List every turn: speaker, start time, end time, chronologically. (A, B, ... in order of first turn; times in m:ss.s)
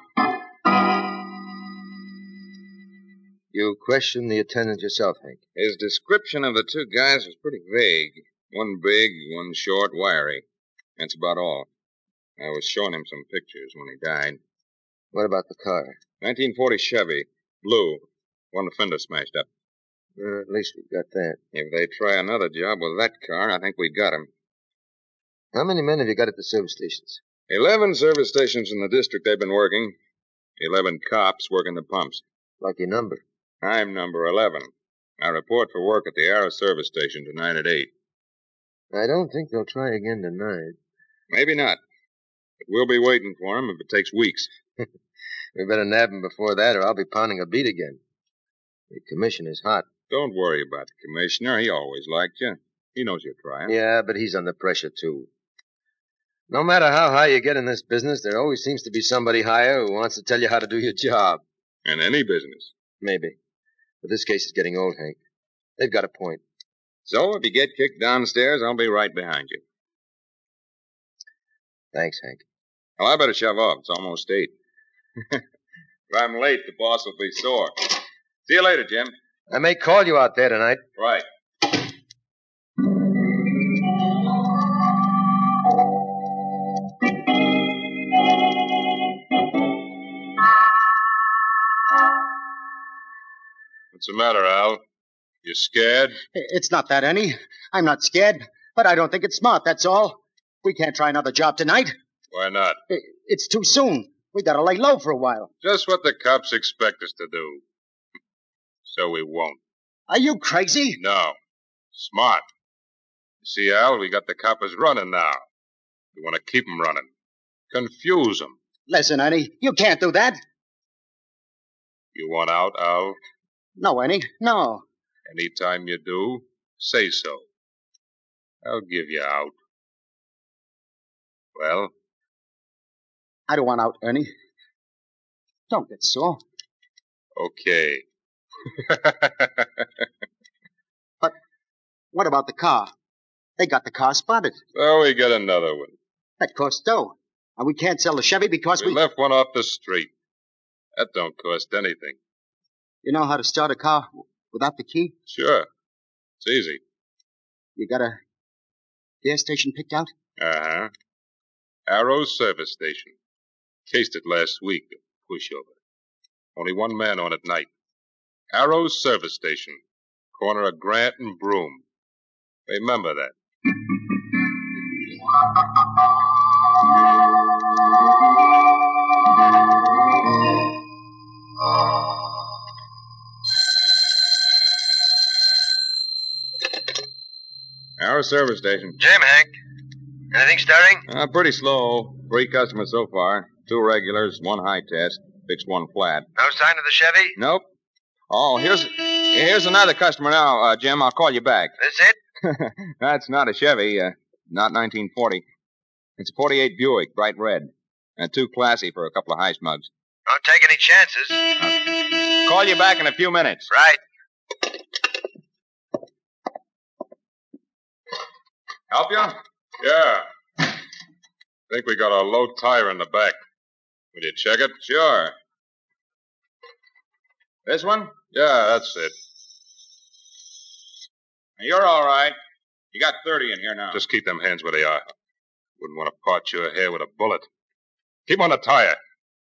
0:03.5-0:05.4 A
0:05.6-0:10.4 B
0:11.0-0:11.7 B
0:12.4-0:14.4 B
0:15.1-0:16.0 A
0:16.2-0:19.5 B
0:20.2-0:21.4 A
0:21.5-0:24.3 B
0:25.5-0:27.2 A
0:27.5-0:30.0 B
0:30.6-0:32.2 B
0:32.6-0:33.2 A
0:33.6-0:37.9 B
0:38.9-0:40.8 A
0:41.3-0:41.8 B
0:42.6-0:44.5 B
0:45.6-0:48.0 A
0:48.9-0:49.9 A
0:50.1-0:53.8 B
0:53.7-0:55.3 A
0:56.5-1:01.4 A
1:01.8-1:02.7 B
1:03.0-1:03.4 A
1:04.0-1:05.2 A
1:05.8-1:06.4 A
1:07.1-1:09.6 B
1:11.9-1:12.4 A
1:13.0-1:14.5 B
1:16.1-1:17.9 B
1:18.5-1:19.1 B
1:19.5-1:20.8 A
1:21.0-1:21.2 B
1:33.9-1:34.8 C
1:35.4-1:36.2 C
1:36.4-1:41.9 D
1:42.3-1:42.8 C
1:42.9-1:45.5 D
1:45.6-1:47.6 C
1:48.8-1:49.6 C
1:50.1-1:51.0 D
1:51.0-1:51.4 C
1:51.9-1:52.4 C
1:53.4-1:55.4 C
1:56.2-1:57.1 C
1:57.7-1:58.6 C
1:58.9-2:00.4 D
2:02.1-2:03.2 C
2:03.8-2:04.8 D
2:05.3-2:07.4 C
2:08.6-2:09.6 C
2:11.6-2:11.9 C
2:13.5-2:14.3 D
2:15.7-2:16.4 D
2:17.4-2:18.0 C
2:18.8-2:19.9 C
2:22.1-2:22.9 D
2:23.6-2:24.6 D
2:24.8-2:25.9 C
2:26.4-2:29.0 D
2:28.8-2:30.1 C
2:31.0-2:32.2 C
2:33.0-2:35.1 D
2:35.3-2:35.7 C
2:36.4-2:36.8 C
2:37.8-2:38.2 D
2:39.2-2:40.1 D
2:40.4-2:40.9 C
2:41.9-2:43.1 C
2:43.9-2:45.7 C
2:46.6-2:47.7 C
2:48.5-2:49.8 C
2:50.4-2:51.8 C
2:52.7-2:53.3 C
3:08.0-3:09.0 B
3:09.0-3:09.5 A
3:10.3-3:11.0 A
3:11.1-3:16.3 B
3:16.4-3:17.4 A
3:17.4-3:17.6 B
3:18.3-3:21.7 B
3:21.8-3:22.2 A
3:22.4-3:25.4 B
3:26.2-3:29.9 B
3:30.3-3:31.4 A
3:31.6-3:33.7 B
3:33.7-3:34.0 A
3:38.9-3:39.4 B
3:39.8-3:40.2 C
3:41.7-3:43.4 C
3:44.1-3:44.8 C
3:44.8-3:45.3 B
3:47.7-3:48.2 B
3:48.3-3:49.1 C
3:51.6-3:52.4 B
3:52.9-3:54.0 B
3:53.9-3:55.0 C
3:55.8-3:57.5 C
3:58.3-3:59.0 C